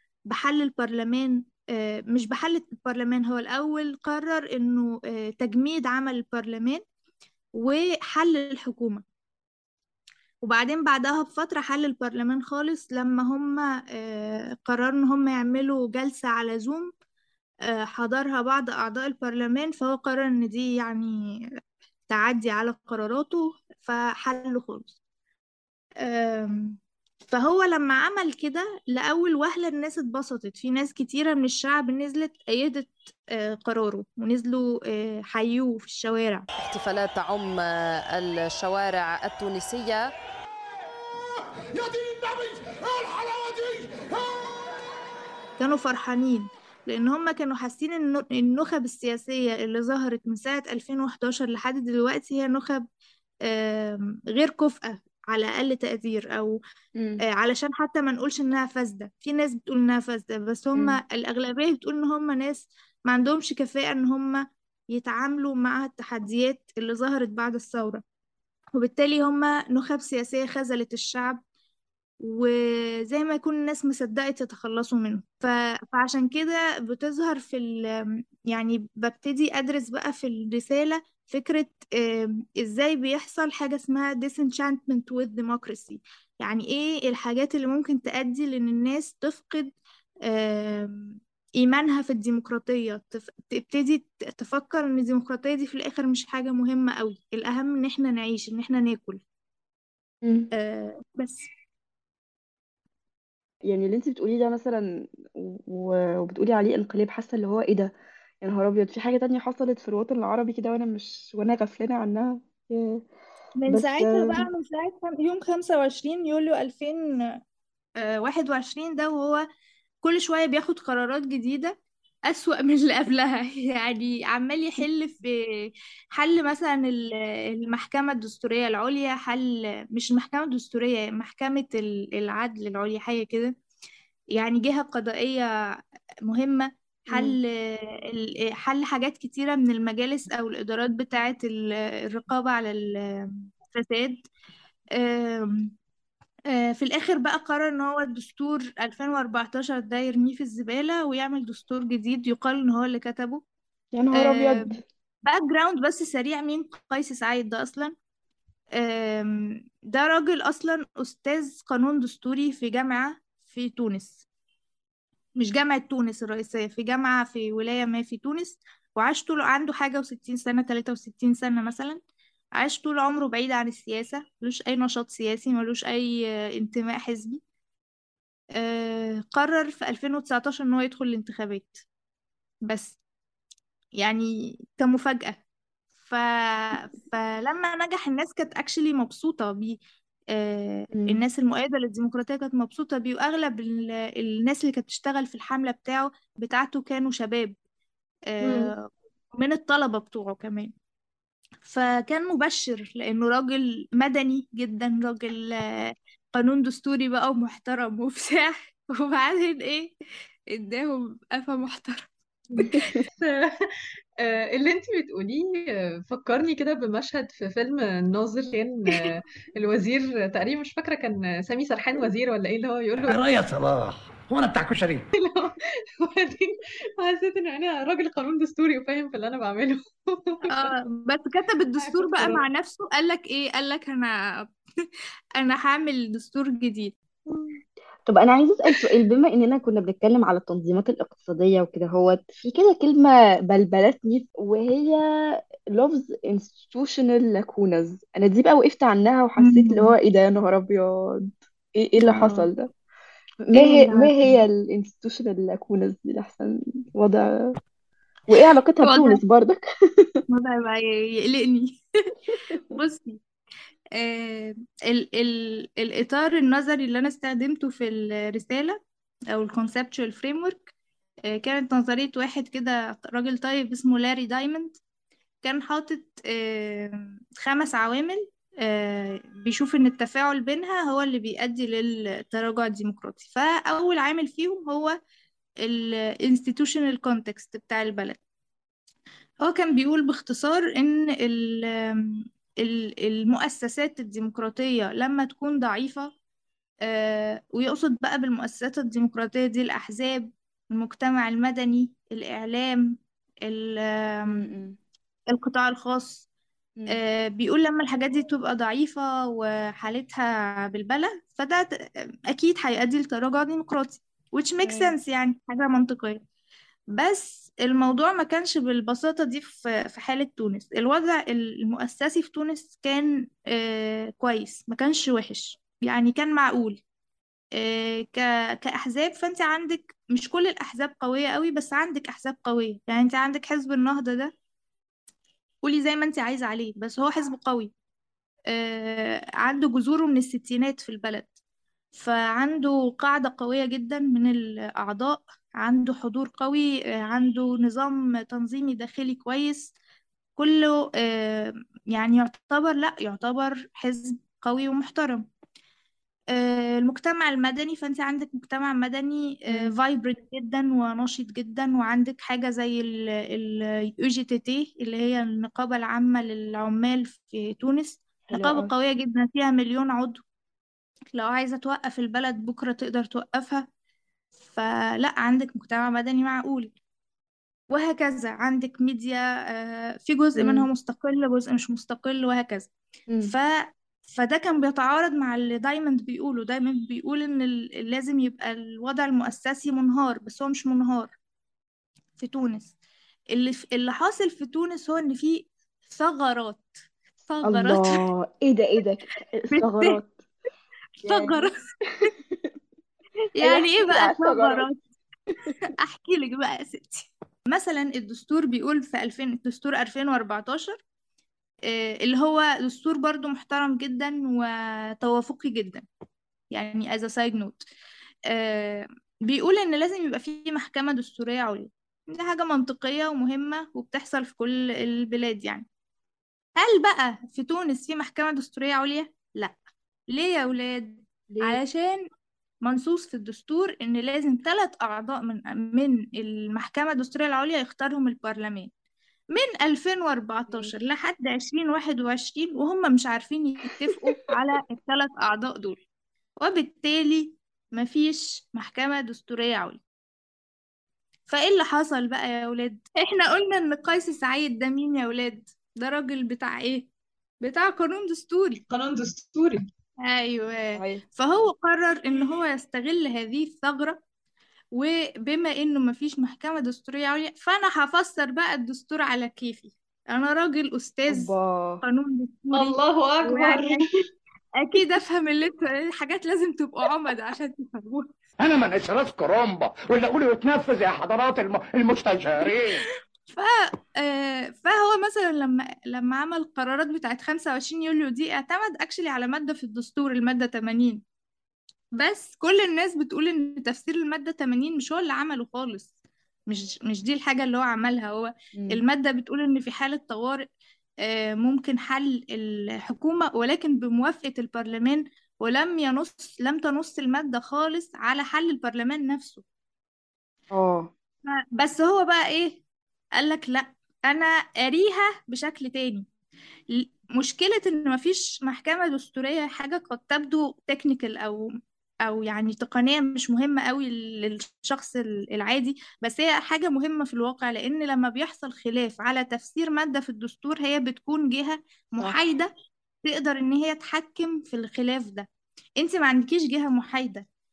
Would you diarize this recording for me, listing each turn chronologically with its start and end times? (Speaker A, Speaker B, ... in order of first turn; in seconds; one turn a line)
Speaker A: 0.3-6.8
Speaker A: 7.5-9.0
Speaker A: 10.4-16.9
Speaker A: 17.7-21.1
Speaker A: 22.1-24.9
Speaker A: 26.0-26.8
Speaker A: 27.3-36.5
Speaker B: 36.7-37.6
Speaker B: 38.2-40.0
Speaker C: 41.8-43.9
Speaker A: 45.6-52.9
Speaker A: 53.5-56.6
Speaker D: 57.0-57.2
Speaker A: 57.2-68.0
Speaker A: 68.8-71.4
Speaker A: 72.2-89.7
Speaker A: 90.3-99.2
Speaker D: 100.2-100.5
Speaker A: 100.5-101.5
Speaker D: 103.7-113.0
Speaker A: 113.6-117.4
Speaker D: 113.7-114.5
Speaker A: 118.0-119.4
Speaker A: 120.0-121.8
Speaker A: 122.3-133.5
Speaker A: 134.3-135.5
Speaker A: 136.3-144.2
Speaker D: 137.1-137.4
Speaker A: 145.0-145.7
Speaker A: 146.5-153.4
Speaker D: 153.9-154.8
Speaker A: 154.1-154.7
Speaker A: 155.2-157.9
Speaker A: 158.8-164.2
Speaker A: 165.4-172.0
Speaker A: 172.6-177.4
Speaker A: 178.6-181.8
Speaker A: 182.7-183.0
Speaker A: 184.0-185.4
Speaker A: 186.0-189.8
Speaker A: 190.3-197.6
Speaker D: 190.9-191.2
Speaker A: 198.3-200.7
Speaker E: 198.4-198.7
Speaker A: 201.6-209.9
Speaker A: 210.5-212.1
Speaker E: 212.5-223.2
Speaker C: 223.1-225.1
Speaker E: 225.2-230.7
Speaker A: 230.5-236.9
Speaker E: 231.8-232.4
Speaker D: 238.1-245.0
Speaker D: 245.7-252.7
Speaker A: 249.4-249.9
Speaker A: 252.0-252.5
Speaker D: 253.5-257.3
Speaker A: 253.5-254.3
Speaker D: 258.3-260.2
Speaker A: 258.8-259.2
Speaker A: 260.3-262.1
Speaker A: 262.7-263.2
Speaker A: 264.0-268.8
Speaker A: 269.3-270.7
Speaker A: 271.3-274.8
Speaker A: 275.4-284.9
Speaker A: 285.6-288.2
Speaker A: 289.4-296.1
Speaker A: 296.9-304.5
Speaker D: 304.3-304.8
Speaker A: 305.3-306.2
Speaker A: 306.9-311.7
Speaker A: 312.3-316.2
Speaker D: 314.6-314.9
Speaker A: 316.9-326.8
Speaker A: 327.6-334.3
Speaker A: 335.6-337.7
Speaker A: 338.5-341.3
Speaker A: 341.9-349.7
Speaker A: 350.4-355.3
Speaker A: 356.3-370.2
Speaker D: 359.5-359.8
Speaker D: 368.3-368.7
Speaker A: 371.1-373.7
Speaker A: 374.5-376.7
Speaker A: 377.7-382.7
Speaker D: 380.4-380.7
Speaker A: 383.2-391.1
Speaker A: 392.2-392.7
Speaker A: 393.3-396.7
Speaker A: 397.3-398.0
Speaker D: 397.4-400.2
Speaker A: 399.5-400.0
Speaker D: 401.0-401.5
Speaker A: 401.0-402.1
Speaker D: 402.0-402.4
Speaker A: 403.4-404.8
Speaker D: 403.4-404.7
Speaker A: 405.7-410.8
Speaker A: 411.7-415.9
Speaker A: 416.5-417.6
Speaker A: 418.3-425.7
Speaker A: 426.6-429.6
Speaker A: 430.1-432.0
Speaker D: 431.3-431.6
Speaker A: 432.6-438.7
Speaker A: 439.3-445.8
Speaker D: 440.5-440.7
Speaker D: 443.7-444.2
Speaker A: 446.4-449.8
Speaker A: 451.3-456.9
Speaker A: 457.4-458.6
Speaker E: 458.7-459.6
Speaker A: 460.1-464.0
Speaker D: 460.8-461.0
Speaker A: 464.7-473.9
Speaker D: 471.1-471.8
Speaker E: 472.5-473.8
Speaker A: 474.6-478.1
Speaker C: 478.4-482.8
Speaker A: 482.6-491.0
Speaker A: 492.0-495.9
Speaker A: 496.5-500.4
Speaker D: 498.6-498.8
Speaker A: 501.0-509.4
Speaker D: 510.5-510.9
Speaker A: 511.3-512.6
Speaker A: 513.2-516.1
Speaker A: 516.7-521.5
Speaker A: 522.0-532.5
Speaker A: 533.0-535.3
Speaker A: 535.8-537.2